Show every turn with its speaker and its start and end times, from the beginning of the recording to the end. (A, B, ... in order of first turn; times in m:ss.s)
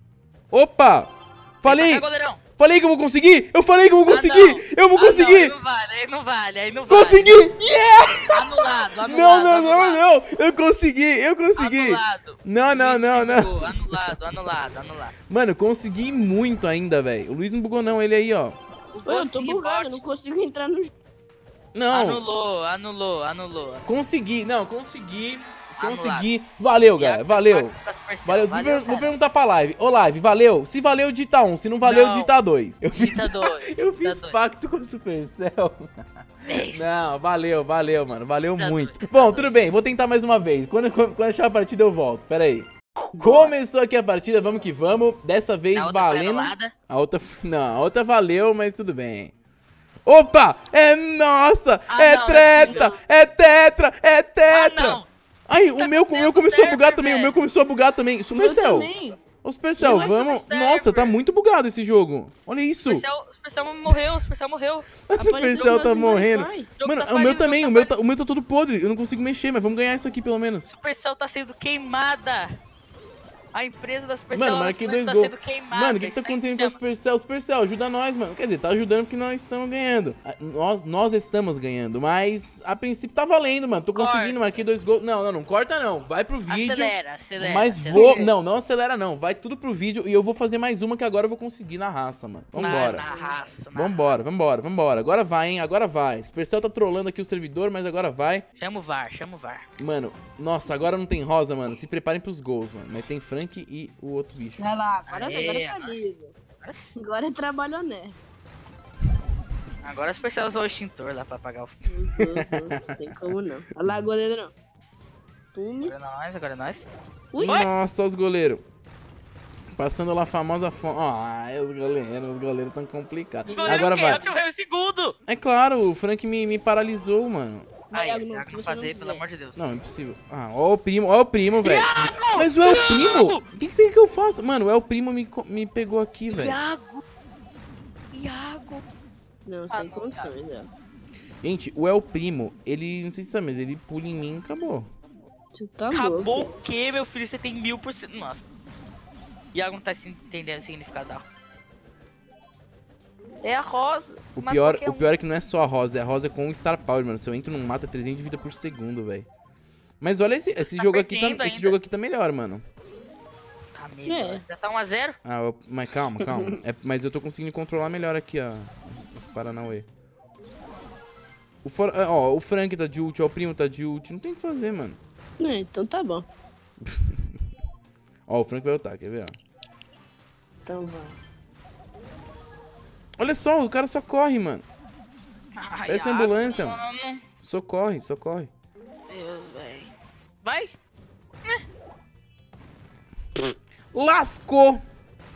0:00.5-0:05.5 A
0:01.6-0:02.4 B
0:04.1-0:07.4 B
0:06.9-0:14.5 A
0:08.3-0:10.0 B
0:11.5-0:15.1 B
0:15.3-0:18.6 A
0:18.9-0:20.0 B
0:19.0-0:20.9 C
0:21.7-0:22.2 A
0:21.9-0:23.9 B
0:23.8-0:27.7 A
0:25.8-0:26.3 B
0:27.0-0:29.1 B
0:28.2-0:49.3 A
0:31.8-0:32.3 B
0:32.9-0:34.4 B
0:36.4-0:36.9 B
0:38.6-0:39.6 B
0:43.1-0:43.5 C
0:45.7-0:46.7 B
0:50.0-0:58.9 A
0:51.9-0:52.9 B
0:52.6-0:52.9 C
0:54.5-0:55.1 B
0:55.8-0:57.4 B
0:58.3-0:59.2 C
0:59.4-1:03.0 A
0:59.8-1:00.1 C
0:59.8-1:01.2 B
1:02.8-1:04.9 B
1:05.1-1:10.7 A
1:05.2-1:06.7 C
1:05.5-1:05.8 B
1:06.8-1:07.9 B
1:10.7-1:12.6 B
1:13.5-1:16.8 B
1:14.3-1:33.1 A
1:23.9-1:24.4 B
1:26.5-1:28.3 B
1:27.9-1:28.2 C
1:32.6-1:34.2 B
1:32.6-1:33.4 C
1:33.7-1:38.4 A
1:38.6-1:39.7 B
1:39.8-1:44.7 A
1:44.6-1:46.3 C
1:45.1-1:46.1 B
1:46.6-1:47.0 B
1:47.0-1:48.2 C
1:49.8-1:51.8 B
1:51.8-1:54.5 C
1:52.2-1:53.3 A
1:55.5-1:55.9 C
1:55.8-1:56.9 B
1:57.3-1:57.6 C
1:57.4-1:58.6 A
1:57.4-1:57.7 B
1:59.7-2:04.2 A
2:03.5-2:04.3 C
2:03.5-2:05.2 B
2:05.3-2:07.7 A
2:07.9-2:09.2 C
2:07.9-2:09.8 B
2:09.6-2:16.6 A
2:11.6-2:13.4 B
2:16.3-2:17.0 B
2:18.1-2:18.8 B
2:19.4-2:20.7 C
2:19.7-2:20.3 B
2:21.4-2:24.9 A
2:25.5-2:26.5 C
2:25.9-2:28.4 B
2:29.5-2:31.2 B
2:33.4-2:35.1 B
2:34.4-2:39.3 A
2:40.0-2:42.6 A
2:40.6-2:41.8 B
2:43.7-2:45.2 B
2:44.0-2:44.4 C
2:45.2-2:49.8 A
2:51.6-2:55.0 A
2:55.4-2:56.2 C
2:56.8-2:57.2 A
2:58.3-2:59.4 A
3:00.6-3:01.2 C
3:03.2-3:04.6 A
3:05.6-3:07.2 B
3:05.9-3:06.8 A
3:07.4-3:08.5 A
3:09.1-3:09.9 B
3:10.4-3:10.7 B
3:13.9-3:14.8 A